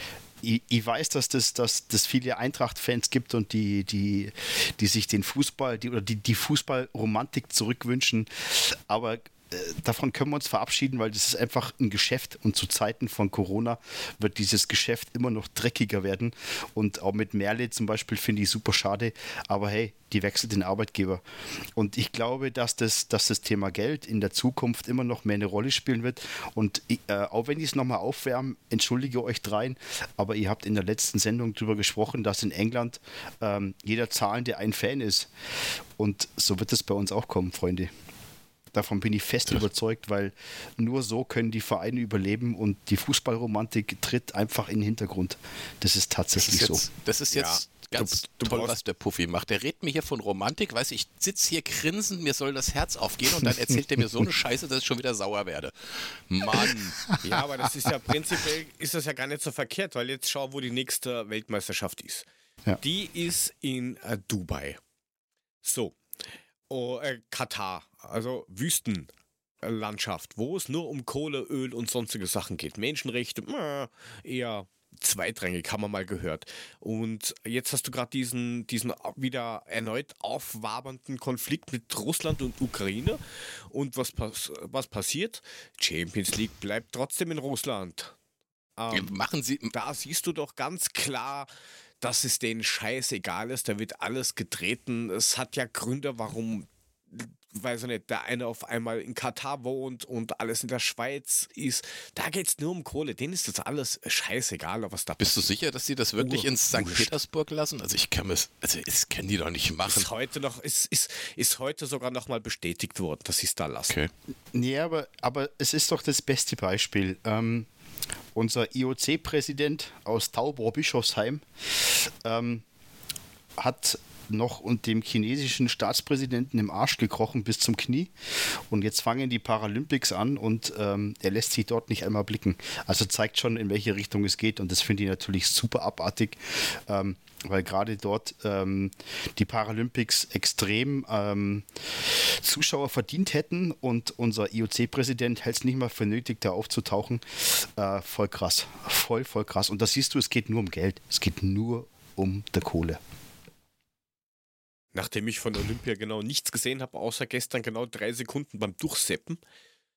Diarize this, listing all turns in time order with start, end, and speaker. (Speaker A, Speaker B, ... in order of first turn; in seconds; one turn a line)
Speaker A: 0.4-21.2
Speaker A: 21.8-35.3
Speaker A: 36.0-37.9
Speaker A: 38.7-46.8
Speaker B: 46.4-57.1
Speaker C: 47.3-48.8
Speaker C: 57.2-62.3
Speaker C: 62.8-64.8
Speaker C: 65.6-66.0
Speaker C: 66.7-69.1
Speaker C: 69.6-88.1
Speaker C: 88.8-89.1
Speaker B: 88.9-89.7
Speaker C: 89.7-91.5
Speaker C: 92.0-105.5
Speaker B: 105.2-110.1
Speaker C: 106.2-107.1
Speaker C: 109.8-114.0
Speaker A: 114.5-117.7
Speaker A: 118.3-122.7
Speaker A: 123.6-153.0
Speaker C: 154.9-159.4